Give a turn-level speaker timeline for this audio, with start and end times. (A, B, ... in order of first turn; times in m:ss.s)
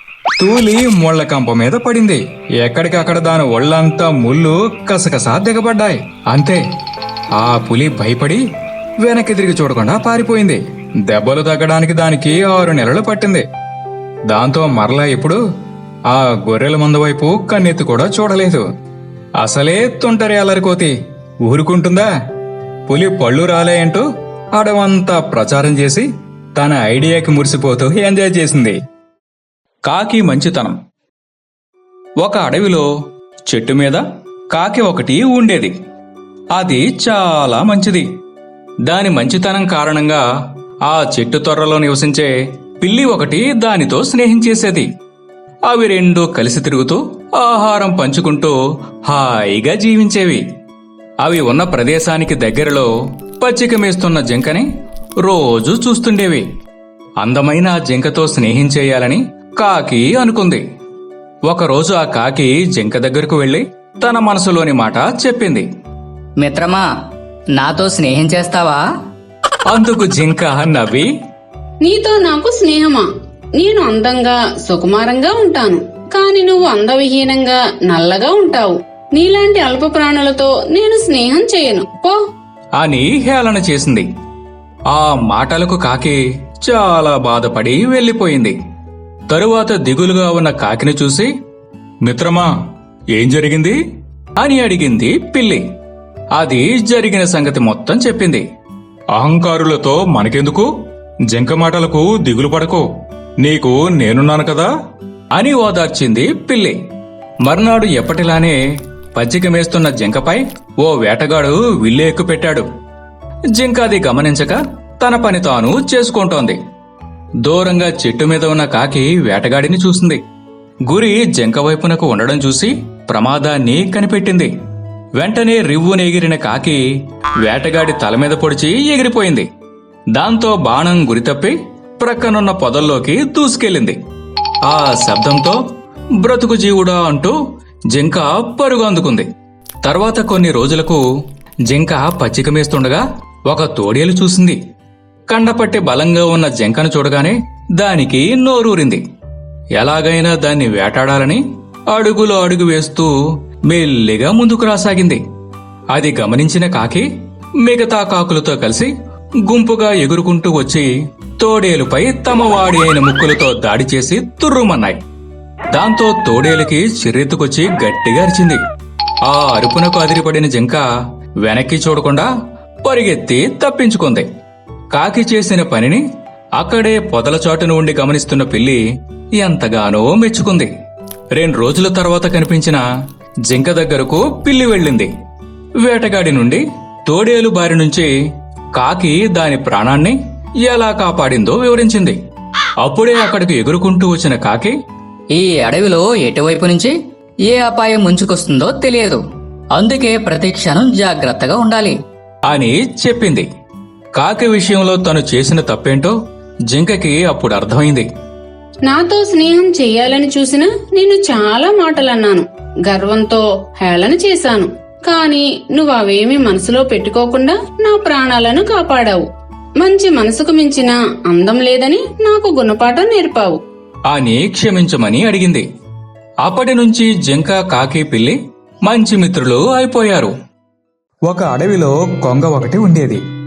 0:00.4-0:06.6 A
0:07.4-0:08.4 A
0:09.0-0:13.4 A
0:14.3-0:15.4 A
0:16.1-0:18.6 A
0:19.4-0:20.9 A
0:21.4-0:22.1 A
0:22.9-0:28.8 A
0:29.8-0:30.8 A
0:32.2-0:32.9 A
0:33.5-0:35.7 A
0:36.5-0:38.0 A
0:38.9-0:40.2 A
0:40.9-0:44.9 A
0:45.7-0:48.6 A
0:49.1-0:50.4 A
0:51.2-0:54.7 A
0:55.2-0:56.4 A
0:57.2-1:00.6 A
1:01.5-1:05.6 A
1:06.4-1:06.9 B
1:07.6-1:08.8 B
1:09.7-1:11.1 A
1:11.8-1:13.0 C
1:13.6-1:22.1 C
1:22.8-1:24.0 A
1:24.9-1:28.5 A
1:29.3-1:31.3 A
1:32.0-1:32.5 A
1:33.1-1:33.8 A
1:34.4-1:35.6 A
1:36.4-1:38.4 A
1:39.1-1:40.7 A
1:41.3-1:42.8 A
1:43.4-1:44.7 A
1:45.3-1:46.8 A
1:47.4-1:48.6 A
1:49.1-1:52.7 A
1:53.5-1:56.6 A
1:57.4-2:00.2 A
2:00.9-2:04.5 A
2:05.2-2:06.8 A
2:07.4-2:09.5 A
2:10.2-2:14.0 A
2:14.6-2:15.6 A
2:16.2-2:17.4 A
2:17.9-2:19.3 A
2:19.8-2:21.0 A
2:21.7-2:24.6 A
2:25.3-2:29.0 A
2:29.8-2:33.1 A
2:33.7-2:35.2 A
2:35.9-2:37.1 A
2:37.6-2:38.9 A
2:39.4-2:45.0 A
2:45.7-2:48.6 A
2:49.2-2:50.8 A
2:51.4-2:52.3 A
2:52.8-2:54.3 A
2:54.9-2:56.0 A
2:56.6-2:58.8 A
2:59.4-3:00.7 A
3:01.4-3:02.8 A
3:03.5-3:05.1 A
3:05.8-3:08.1 A
3:08.8-3:12.2 A
3:12.8-3:14.7 A
3:15.3-3:16.9 B
3:17.5-3:19.2 B
3:19.8-3:22.0 B
3:22.5-3:23.5 A
3:24.2-3:26.1 A
3:26.7-3:28.1 A
3:28.9-3:39.2 C
3:39.8-3:43.6 C
3:44.1-3:45.6 A
3:46.4-3:50.3 A
3:51.3-3:53.2 A